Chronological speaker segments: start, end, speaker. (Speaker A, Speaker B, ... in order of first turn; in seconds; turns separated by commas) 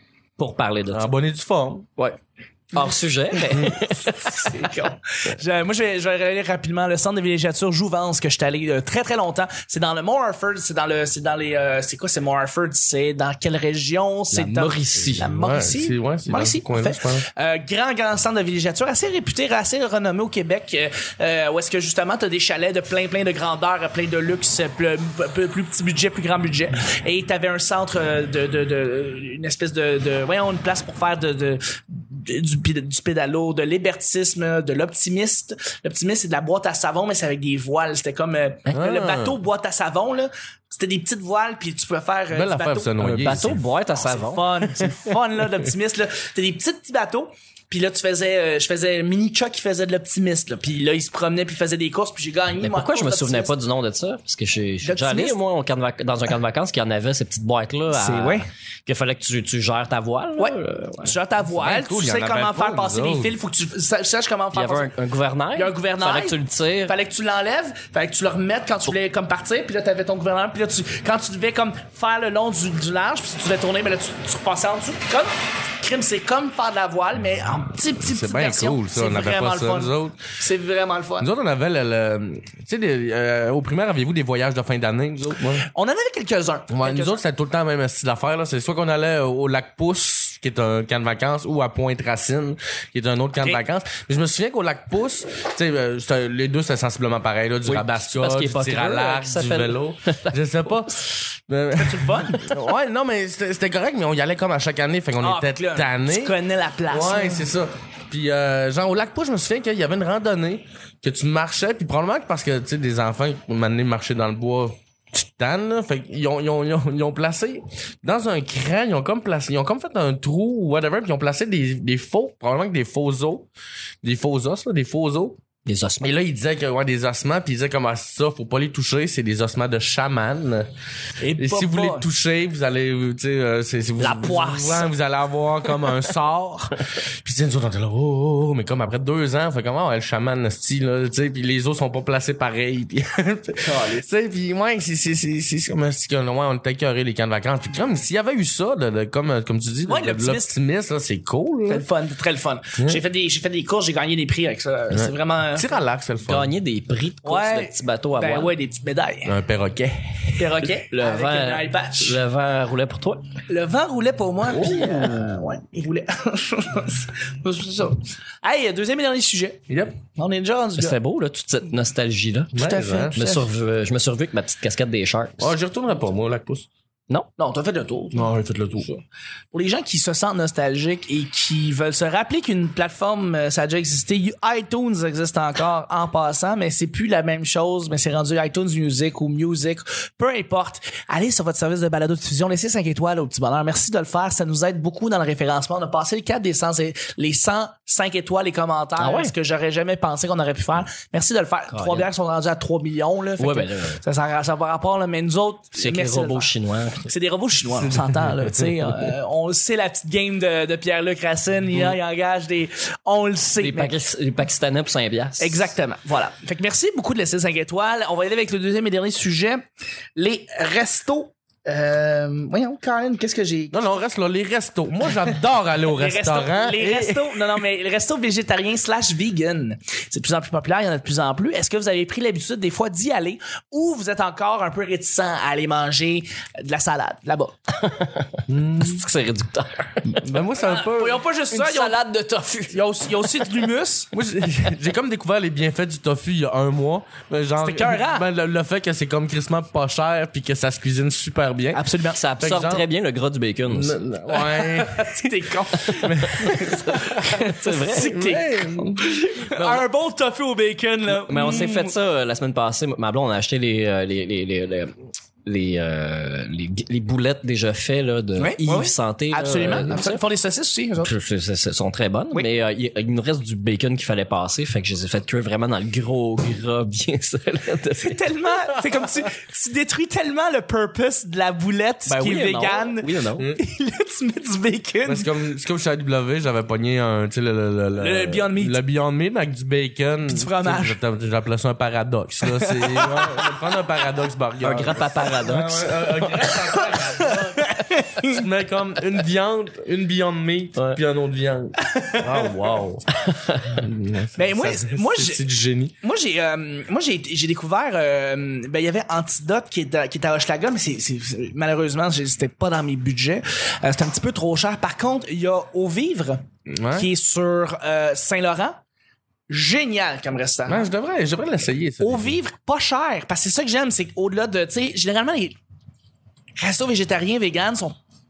Speaker A: 0.4-1.1, Speaker B: 0.9-1.9, Speaker A: 2.7-4.6, Speaker C: 2.8-43.0, Speaker A: 14.3-15.3, Speaker B: 15.2-17.3, Speaker B: 38.7-39.4, Speaker B: 42.3-43.6, Speaker A: 43.0-44.5, Speaker C: 44.0-53.5, Speaker A: 52.6-61.2, Speaker C: 54.8-55.4, Speaker C: 57.9-58.5, Speaker C: 60.4-64.9, Speaker B: 61.6-63.4, Speaker A: 64.5-66.9, Speaker C: 65.5-81.3, Speaker B: 78.0-80.2, Speaker B: 81.2-85.7, Speaker C: 85.6-87.2, Speaker B: 86.7-106.4, Speaker C: 93.4-93.6, Speaker A: 97.7-100.3, Speaker C: 101.8-102.4, Speaker C: 105.2-107.5, Speaker B: 106.9-123.5, Speaker B: 124.0-125.4, Speaker A: 125.7-126.1, Speaker B: 126.0-130.7, Speaker C: 131.2-132.1, Speaker B: 131.4-151.9, Speaker C: 134.0-134.9, Speaker C: 143.6-144.1, Speaker C: 149.9-150.6, Speaker C: 151.7-155.8, Speaker B: 152.8-153.0, Speaker B: 154.9-156.5, Speaker A: 156.3-158.5, Speaker C: 157.2-159.4, Speaker B: 159.2-160.6, Speaker C: 160.4-162.2, Speaker A: 160.8-163.2, Speaker C: 163.5-171.0, Speaker B: 164.4-165.0, Speaker B: 169.7-170.0, Speaker A: 170.8-175.5, Speaker B: 172.5-173.2, Speaker C: 172.6-173.5, Speaker B: 175.4-176.7, Speaker C: 177.4-178.3, Speaker B: 178.1-179.0, Speaker C: 179.5-214.0, Speaker A: 199.0-199.3, Speaker A: 201.7-202.1, Speaker A: 203.4-204.0, Speaker A: 205.8-207.1, Speaker A: 213.6-215.7, Speaker C: 215.4-219.6, Speaker C: 220.2-223.8, Speaker B: 223.7-227.5, Speaker C: 225.9-237.6, Speaker A: 237.8-240.2, Speaker B: 238.5-239.0, Speaker B: 240.1-241.2, Speaker C: 240.6-242.0, Speaker A: 241.5-243.7, Speaker C: 242.7-244.1, Speaker B: 244.1-251.8, Speaker C: 247.6-248.3, Speaker C: 251.7-252.2, Speaker A: 252.1-253.9, Speaker B: 252.4-252.8, Speaker B: 253.7-255.3, Speaker C: 254.3-261.9, Speaker A: 255.8-256.1, Speaker B: 255.9-257.1, Speaker A: 256.6-258.3, Speaker B: 258.0-259.1, Speaker A: 259.5-259.8, Speaker A: 261.1-264.9, Speaker A: 265.4-270.2, Speaker C: 268.4-271.1, Speaker A: 271.0-278.2, Speaker C: 278.0-285.3, Speaker A: 282.1-283.5, Speaker B: 283.4-283.6, Speaker B: 285.1-297.7, Speaker C: 287.9-288.8, Speaker C: 290.3-291.0, Speaker C: 292.4-293.6, Speaker A: 294.6-295.9, Speaker C: 295.4-298.4, Speaker B: 298.2-303.0, Speaker C: 301.9-302.2, Speaker A: 302.3-303.7, Speaker B: 303.7-305.9, Speaker C: 304.4-305.4, Speaker C: 306.0-318.8, Speaker B: 316.7-317.1, Speaker C: 319.5-320.9, Speaker B: 320.7-322.4, Speaker C: 322.0-325.6, Speaker C: 326.6-328.0